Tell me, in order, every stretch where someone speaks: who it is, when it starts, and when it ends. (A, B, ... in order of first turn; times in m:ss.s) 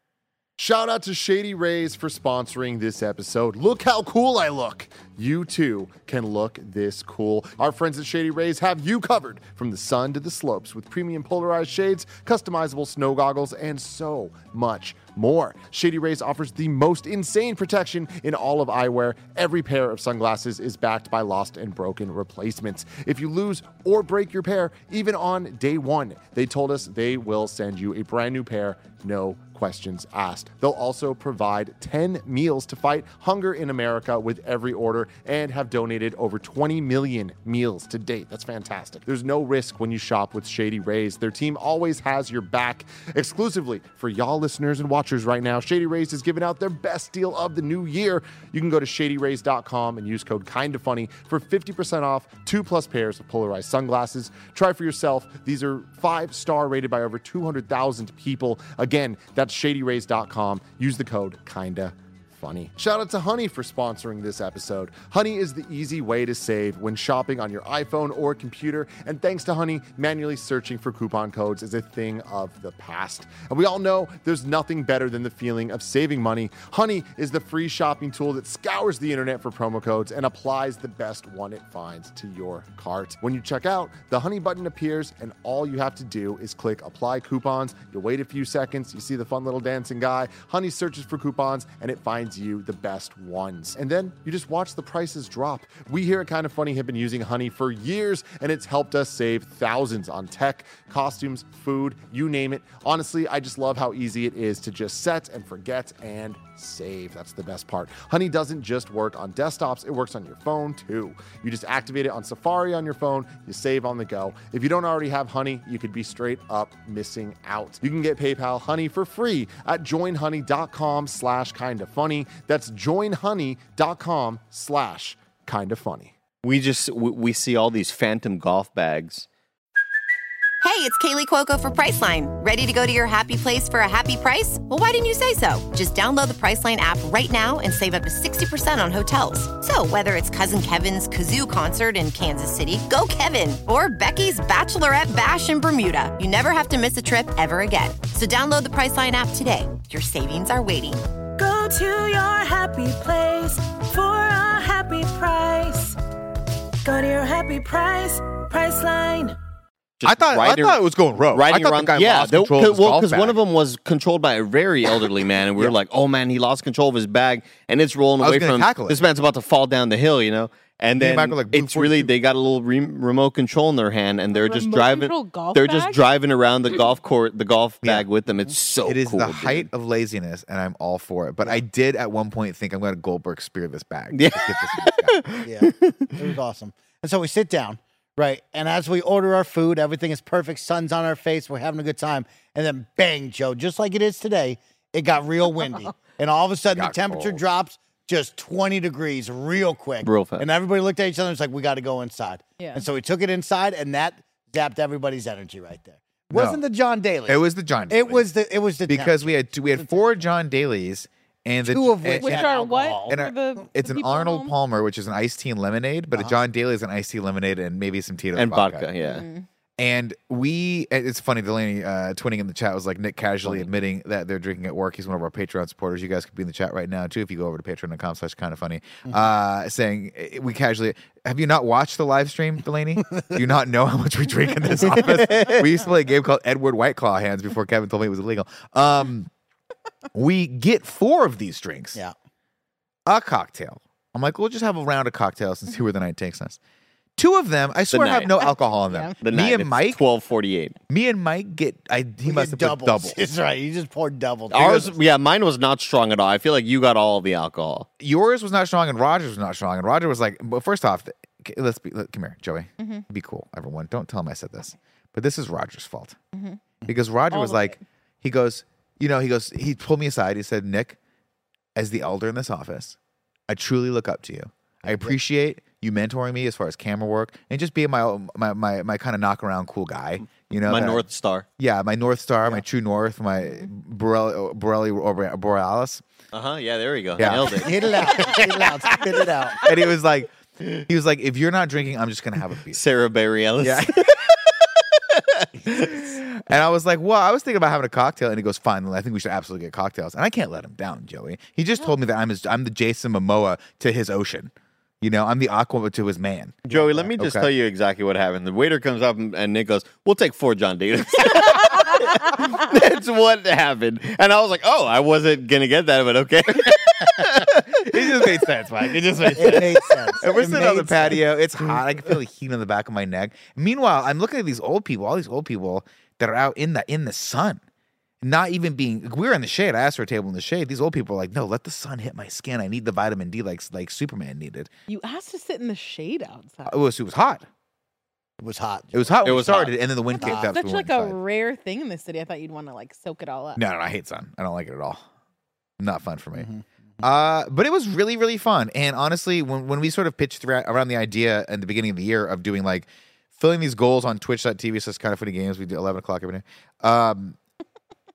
0:00.6-2:06.1 A
2:06.4-2:09.3 B
2:10.6-2:31.0 C
2:31.4-2:36.0 D
2:36.8-2:39.4 D
2:40.0-2:40.8 B
2:40.0-2:43.4 E
2:41.3-2:59.7 B
2:48.2-2:49.1 E
2:51.0-2:52.1 E
2:54.3-2:56.0 F
2:58.8-3:05.2 E
3:04.1-3:06.1 B
3:05.4-3:30.2 G
3:16.7-3:17.4 E
3:20.0-3:20.5 B
3:22.6-3:22.9 F
3:26.3-3:26.6 E
3:27.3-3:28.3 E
3:28.9-3:38.9 E
3:31.6-3:33.2 G
3:32.2-3:34.6 F
3:38.4-3:39.2 B
3:39.0-3:39.5 F
3:39.8-3:59.3 E
3:55.0-3:55.6 B
4:00.1-4:02.0 E
4:03.1-4:06.6 E
4:07.2-4:10.0 E
4:07.9-4:08.3 B
4:08.4-4:09.2 F
4:09.2-4:10.8 B
4:10.9-4:13.2 E
4:12.2-4:15.0 G
4:14.5-4:17.9 B
4:18.0-4:26.2 E
4:22.8-4:23.0 F
4:26.3-4:26.6 F
4:26.9-4:31.0 E
4:27.3-4:27.8 F
4:31.8-4:33.0 E
4:33.5-4:41.1 E
4:34.9-4:35.2 G
4:40.7-4:41.4 B
4:41.6-4:46.0 E
4:46.3-4:49.3 B
4:47.2-4:47.8 E
4:47.5-4:49.6 G
4:49.6-4:50.3 E
4:50.8-4:52.8 E
4:52.7-4:56.0 B
4:53.6-4:54.2 E
4:55.7-5:06.6 E
5:06.7-5:18.4 B
5:06.7-5:07.1 G
5:07.2-5:07.5 E
5:17.4-5:27.6 E
5:19.1-5:19.9 B
5:19.4-5:21.2 G
5:28.2-5:34.7 E
5:34.9-5:36.8 F
5:36.7-5:37.5 E
5:38.4-5:39.7 G
5:38.9-5:41.2 E
5:39.2-5:39.7 B
5:40.1-5:43.6 F
5:40.2-5:40.5 G
5:43.6-5:45.0 E
5:45.8-5:46.5 E
5:46.3-5:46.6 G
5:47.0-5:57.4 E